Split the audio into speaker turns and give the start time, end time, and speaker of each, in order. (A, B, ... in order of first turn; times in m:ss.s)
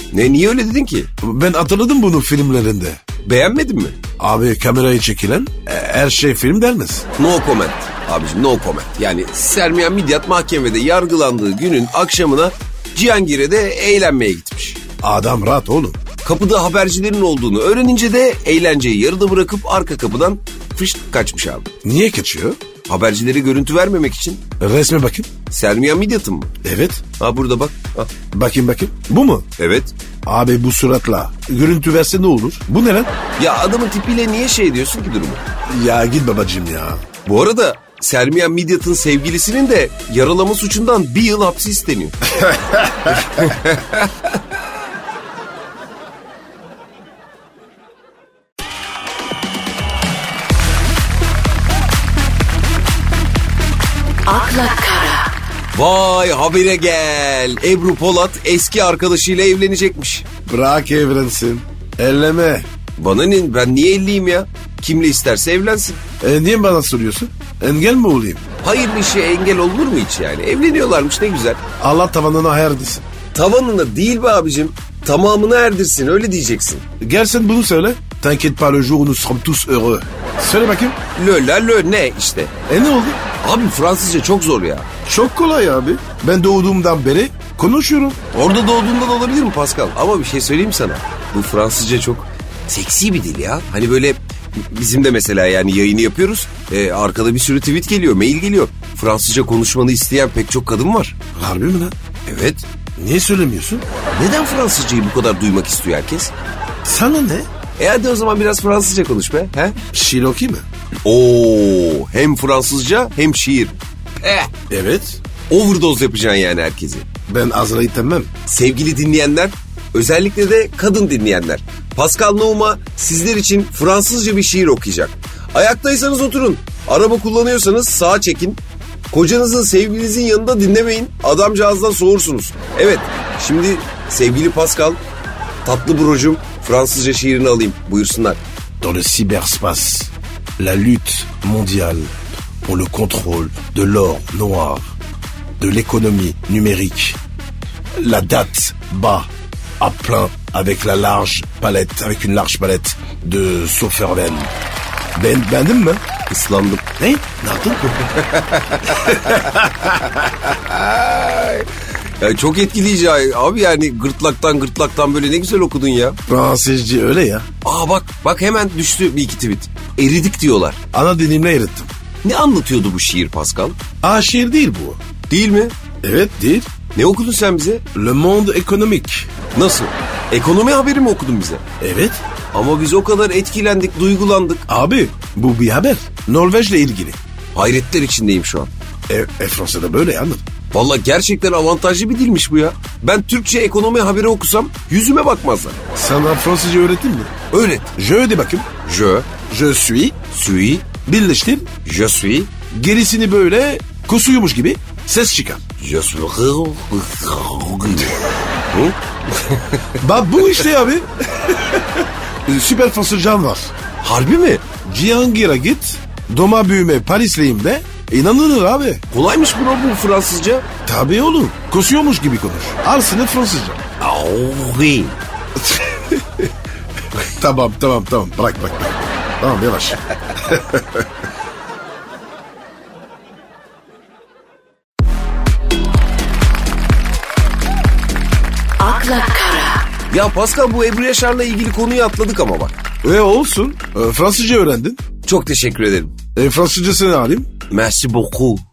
0:00.1-0:01.1 A
0:01.2-0:03.0 B
0:03.2-0:04.0 A
0:04.2-0:07.1 B
0:07.2-0:14.8 A
0:15.0-0:16.0 B
0:16.2-0:21.7 A
0:21.8-0:22.6 B
0:22.9-0:24.4 A
0:24.6-0:25.3 B
0:25.5-0:26.5 A
0:26.6-0:27.0 B
0:27.2-0:28.1 A
0:28.3-0:29.5 B
0:29.6-0:29.9 A
0:30.2-0:33.1 B
0:33.4-0:35.4 A
0:35.7-0:37.0 B
0:37.2-0:42.4 A
0:42.4-0:43.2 B
0:43.1-0:44.4 A
0:54.2-0:55.3 C
0:55.7-1:00.2 A
1:00.4-1:02.7 B
1:03.0-1:06.0 A
1:06.2-1:08.4 B
1:08.6-1:11.6 A
1:11.8-1:13.1 B
1:13.3-1:16.8 A
1:17.0-1:21.0 B
1:21.2-1:22.5 A
1:22.7-1:23.2 B
1:23.4-1:24.9 A
1:25.0-1:28.2 B
1:28.3-1:41.2 A
1:41.3-1:41.9 B
1:42.2-1:42.6 A
1:43.0-1:43.8 B
1:44.1-1:46.3 A
1:46.8-1:47.5 B
1:47.8-1:49.8 A
1:49.9-1:50.6 B
1:51.0-1:54.5 A
1:54.7-1:55.2 B
1:55.5-1:57.1 A
1:57.3-1:58.3 B
1:58.4-2:15.0 A
2:15.6-2:18.4 A
2:18.8-2:24.9 B
2:25.6-2:27.2 B
2:28.0-2:34.5 B
2:35.1-2:36.0 B
2:36.3-2:36.9 A
2:37.0-2:38.1 B
2:38.1-2:39.6 A
2:38.9-2:40.3 B
2:40.4-2:41.7 A
2:42.2-2:46.2 A
2:46.3-2:47.5 B
2:47.6-2:50.8 A
2:50.9-2:51.9 B
2:52.2-2:53.8 A
2:54.0-2:55.0 B
2:55.3-2:55.7 A
2:56.0-2:56.7 B
2:56.9-2:57.8 A
2:57.9-2:59.3 B
2:59.5-3:01.6 A
3:01.8-3:02.2 B
3:02.5-3:04.6 A
3:04.7-3:07.2 B
3:07.5-3:08.7 A
3:09.1-3:10.4 B
3:10.7-3:15.8 A
3:15.9-3:17.3 B
3:17.5-3:17.9 A
3:18.0-3:18.7 B
3:18.8-3:19.3 A
3:19.4-3:20.2 B
3:20.3-3:20.9 A
3:21.0-3:21.8 B
3:21.8-3:22.5 A
3:22.7-3:25.6 B
3:25.8-3:29.9 A
3:30.0-3:33.7 B
3:34.0-3:34.6 A
3:34.8-3:39.0 B
3:39.1-3:40.6 A
3:40.8-3:43.8 B
3:44.0-3:45.2 A
3:45.6-3:46.5 B
3:47.1-3:51.1 B
3:58.8-3:59.9 C
4:00.1-4:02.7 A
4:03.0-4:05.0 B
4:05.2-4:06.1 A
4:06.3-4:07.5 B
4:07.7-4:08.6 A